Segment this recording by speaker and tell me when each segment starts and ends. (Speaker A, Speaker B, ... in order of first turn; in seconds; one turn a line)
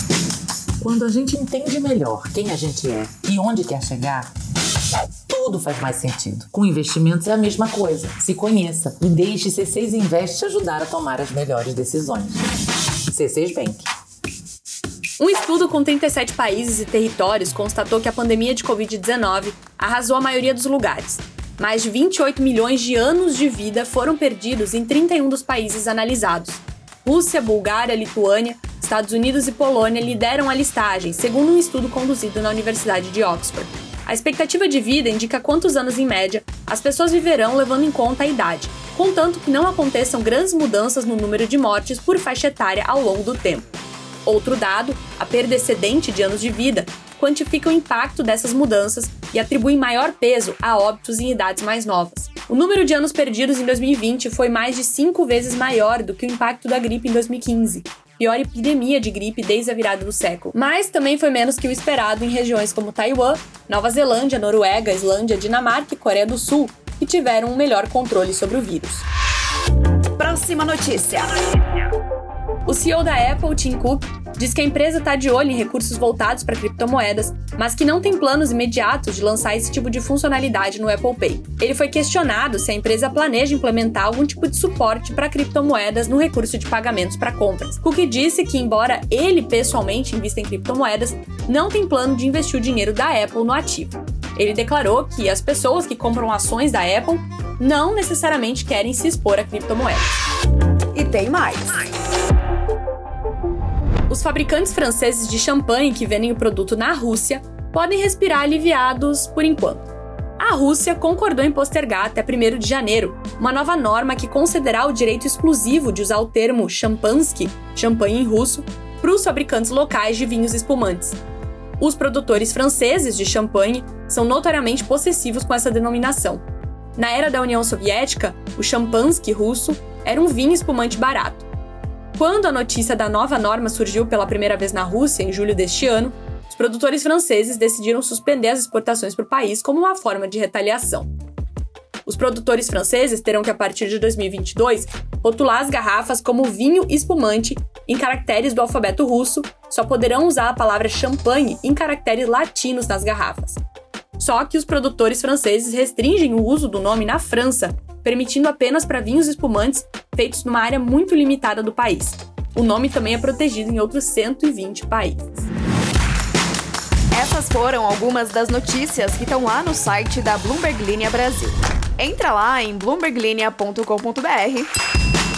Speaker A: 0.8-4.3
Speaker A: 5.3-12.4
Speaker A: 13.1-13.8
Speaker B: 15.2-43.6
Speaker B: 44.2-69.0
Speaker C: 70.2-71.4
Speaker B: 72.7-100.1
Speaker C: 100.9-101.9
Speaker B: 104.1-121.2
Speaker B: 121.8-126.4
Speaker B: 127.0-131.5
Speaker B: 132.1-141.1
Speaker B: 142.1-153.6
Speaker B: 154.2-165.5
Speaker C: 167.1-174.7